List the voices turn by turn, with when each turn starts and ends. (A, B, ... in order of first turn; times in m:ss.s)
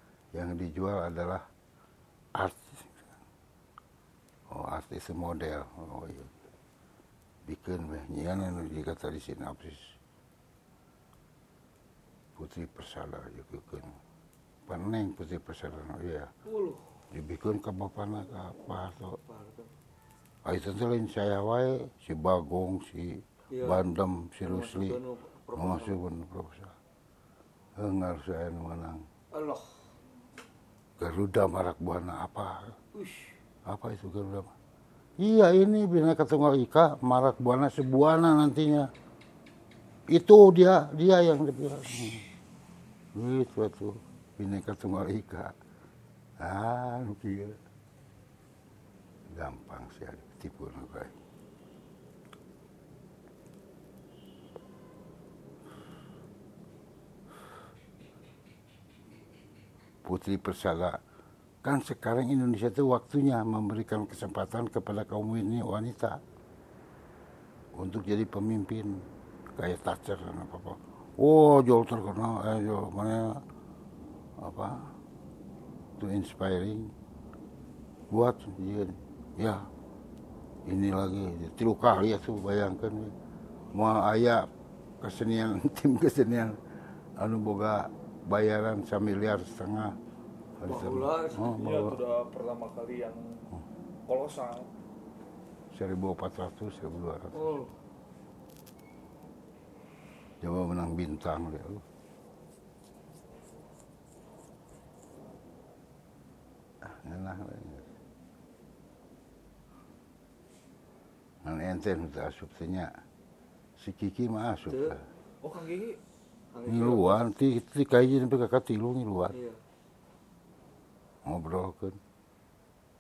0:00.3-0:01.5 A
0:02.4-0:03.1 A
0:04.5-0:06.4 A
0:07.5-0:10.0 A
0:12.4-0:14.0 A
0:14.7-0:16.3 A
0:16.5-0:16.9 B
0:17.1-0:19.2 A
0:19.3-0:19.7 B
0:20.4-0:25.0 A
0:23.5-0:23.9 B
0:24.4-0:26.0 B
0:25.6-0:26.8 A
0:27.8-0:29.0 A
0:29.3-0:29.9 B
0:31.0-0:32.8 A
0:32.9-0:33.4 B
0:33.6-0:34.5 A
0:35.2-0:38.9 A
0:40.1-0:42.3 A
0:43.2-0:45.6 A
0:46.4-0:47.6 A
0:49.3-0:51.2 A
1:00.0-1:01.0 A
1:01.6-1:06.2 A
1:07.7-1:13.4 A
1:14.4-1:14.9 A
1:16.0-1:16.9 A
1:18.1-1:19.7 A
1:20.6-1:23.1 A
1:23.7-1:24.5 A
1:25.0-1:26.6 A
1:27.2-1:30.0 A
1:30.6-1:32.0 A
1:30.6-1:31.6 B
1:31.5-1:33.5 C
1:34.1-1:34.7 C
1:35.7-1:37.5 A
1:37.3-1:37.7 B
1:40.4-1:41.8 A
1:46.8-1:47.9 A
1:51.4-1:53.0 A
1:53.8-1:55.1 A
1:54.7-1:55.0 B
1:55.4-1:56.0 C
1:56.5-1:57.2 B
1:56.7-1:59.3 A
1:59.3-1:59.6 B
2:01.2-2:02.0 A